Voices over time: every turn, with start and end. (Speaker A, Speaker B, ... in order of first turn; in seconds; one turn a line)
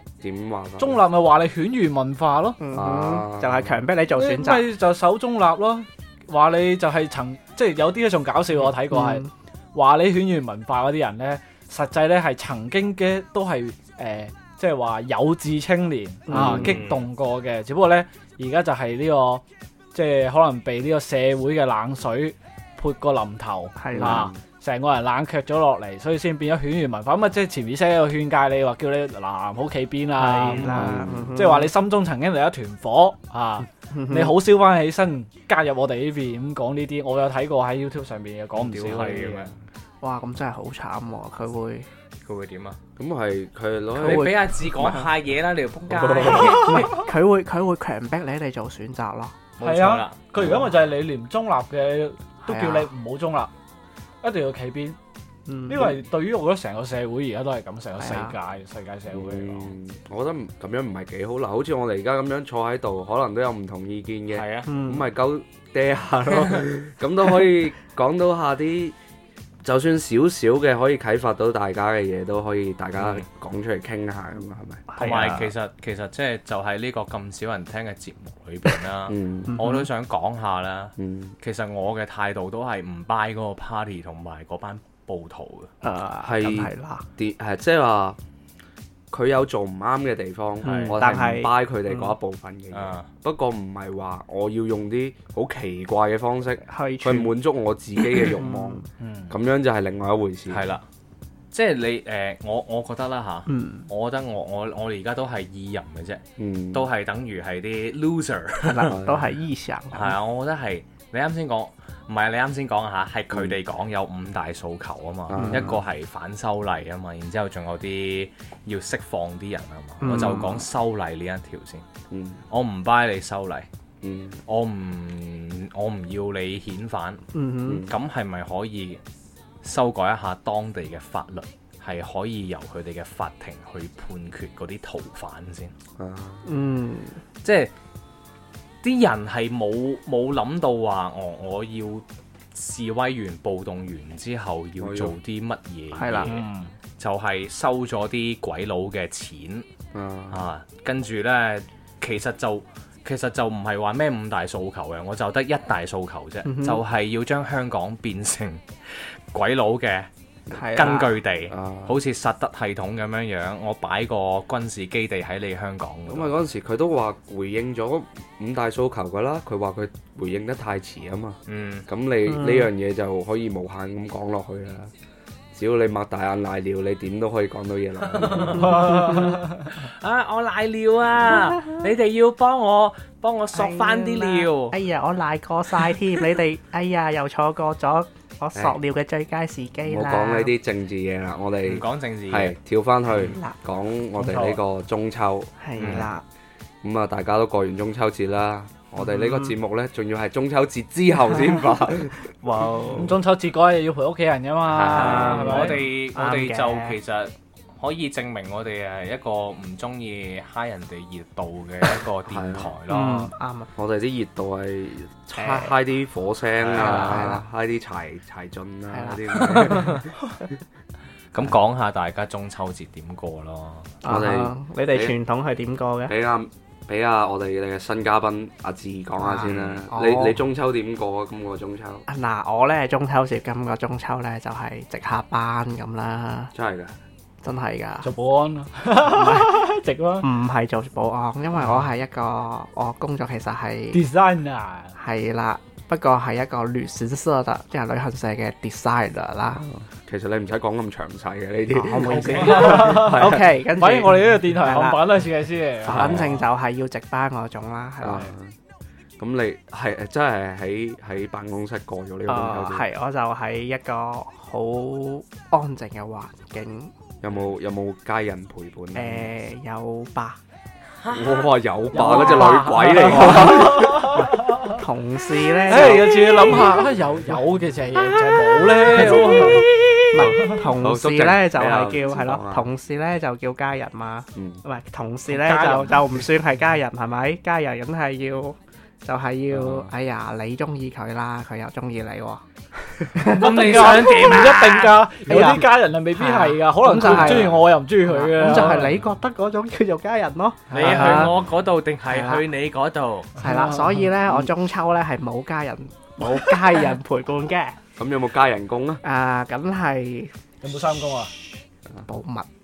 Speaker A: 0.2-1.0
Speaker B: 0.8-2.6
Speaker C: 2.6-4.7
Speaker A: 2.7-3.8
Speaker B: 4.1-19.4
Speaker C: 8.9-9.3
Speaker C: 16.3-16.8
Speaker A: 16.3-16.7
Speaker D: 16.4-17.1
Speaker B: 19.9-39.5
Speaker C: 23.8-24.3
Speaker A: 23.9-24.4
Speaker C: 30.1-31.7
Speaker A: 30.7-31.3
Speaker C: 33.9-34.4
Speaker D: 38.5-39.5
Speaker C: 40.0-41.9
Speaker D: 42.2-42.8
Speaker A: 43.0-44.4
Speaker C: 44.0-45.1
Speaker D: 44.0-47.0
Speaker A: 46.0-46.6
Speaker C: 46.1-49.4
Speaker D: 49.6-50.2
Speaker B: 49.6-53.5
Speaker C: 52.5-52.9
Speaker B: 54.2-55.0
Speaker C: 55.5-55.9
Speaker B: 55.6-59.7
Speaker C: 58.0-58.3
Speaker A: 59.1-69.0
Speaker D: 64.3-64.7
Speaker C: 64.7-65.1
Speaker A: 69.6-74.8
Speaker D: 73.0-73.2
Speaker C: 74.9-75.5
Speaker D: 75.0-85.7
Speaker A: 79.1-79.5
Speaker C: 79.5-79.9
Speaker A: 81.0-81.3
Speaker C: 85.8-87.0
Speaker A: 86.2-88.2
Speaker A: 89.1-100.7
Speaker D: 90.6-91.0
Speaker C: 90.6-92.1
Speaker D: 92.7-93.1
Speaker C: 96.7-97.3
Speaker C: 98.0-98.8
Speaker B: 99.0-99.3
Speaker D: 100.5-100.8
Speaker D: 101.5-109.0
Speaker C: 103.5-103.9
Speaker A: 106.4-106.9
Speaker C: 108.7-110.2
Speaker A: 108.8-109.3
Speaker D: 109.9-121.8
Speaker A: 115.3-115.8
Speaker C: 115.3-115.8
Speaker C: 120.0-120.6
Speaker A: 122.1-122.4
Speaker D: 122.5-123.7
Speaker A: 124.0-124.4
Speaker D: 124.5-127.2
Speaker C: 127.3-127.9
Speaker A: 127.6-127.9
Speaker D: 127.9-129.0
Speaker D: 129.6-135.7
Speaker A: 136.0-136.5
Speaker C: 136.4-137.2
Speaker D: 137.4-137.7
Speaker D: 138.8-146.4
Speaker A: 144.8-145.1
Speaker C: 145.9-146.4
Speaker B: 146.2-146.7
Speaker D: 147.0-149.7
Speaker A: 149.9-150.4
Speaker D: 150.3-160.1
Speaker C: 156.4-156.8
Speaker C: 160.5-161.1
Speaker D: 160.6-166.3
Speaker A: 161.5-162.0
Speaker A: 166.1-174.9
Speaker D: 171.5-171.8
Speaker C: 172.2-172.7
Speaker A: 175.5-179.1
Speaker D: 178.1-184.8
Speaker C: 178.6-179.4
Speaker C: 183.5-190.5
Speaker A: 189.8-196.0
Speaker D: 191.6-192.6
Speaker C: 193.1-193.5
Speaker B: 194.2-194.6
Speaker C: 195.6-196.2
Speaker D: 195.8-196.1
Speaker A: 196.8-202.3
Speaker C: 199.0-199.5
Speaker C: 202.4-203.1
Speaker B: 203.0-205.8
Speaker A: 204.7-205.5
Speaker D: 204.9-213.3
Speaker C: 204.9-206.9
Speaker A: 212.3-212.7
Speaker C: 212.9-213.7
Speaker A: 213.8-220.1
Speaker C: 215.4-215.8
Speaker D: 216.6-217.3
Speaker C: 216.7-217.4
Speaker C: 218.9-220.1
Speaker D: 219.7-220.0
Speaker D: 221.3-223.9
Speaker C: 224.0-226.1
Speaker A: 224.0-225.2
Speaker A: 226.1-232.1
Speaker C: 229.2-230.4
Speaker D: 229.5-229.8
Speaker C: 232.1-236.5
Speaker A: 236.5-237.0
Speaker C: 237.4-238.1
Speaker B: 238.0-240.3
Speaker C: 239.0-239.7
Speaker C: 240.2-244.0
Speaker B: 243.9-244.9
Speaker C: 244.9-249.6
Speaker A: 249.6-253.5
Speaker C: 251.7-255.1
Speaker B: 252.1-256.3
Speaker C: 255.8-258.3
Speaker A: 255.8-256.4
Speaker A: 258.0-258.5
Speaker A: 259.2-262.8
Speaker C: 262.3-266.9
Speaker A: 267.2-269.3
Speaker C: 268.9-270.4
Speaker D: 271.0-271.5
Speaker A: 271.1-274.2
Speaker B: 271.9-274.8
Speaker C: 271.9-276.7
Speaker B: 275.6-279.7
Speaker C: 278.4-292.4
Speaker D: 279.0-279.6
Speaker A: 280.1-282.7
Speaker A: 284.3-284.6
Speaker B: 285.3-286.0
Speaker A: 289.5-289.9
Speaker C: 293.1-294.6
Speaker D: 293.3-295.0
Speaker B: 293.3-298.9
Speaker C: 295.2-301.4
Speaker A: 297.2-297.5
Speaker B: 300.7-301.3
Speaker D: 300.7-303.3
Speaker C: 302.1-302.4
Speaker C: 303.4-307.8
Speaker B: 303.4-304.1
Speaker A: 308.0-309.0
Speaker C: 309.0-310.4
Speaker B: 310.6-311.3
Speaker C: 312.1-312.5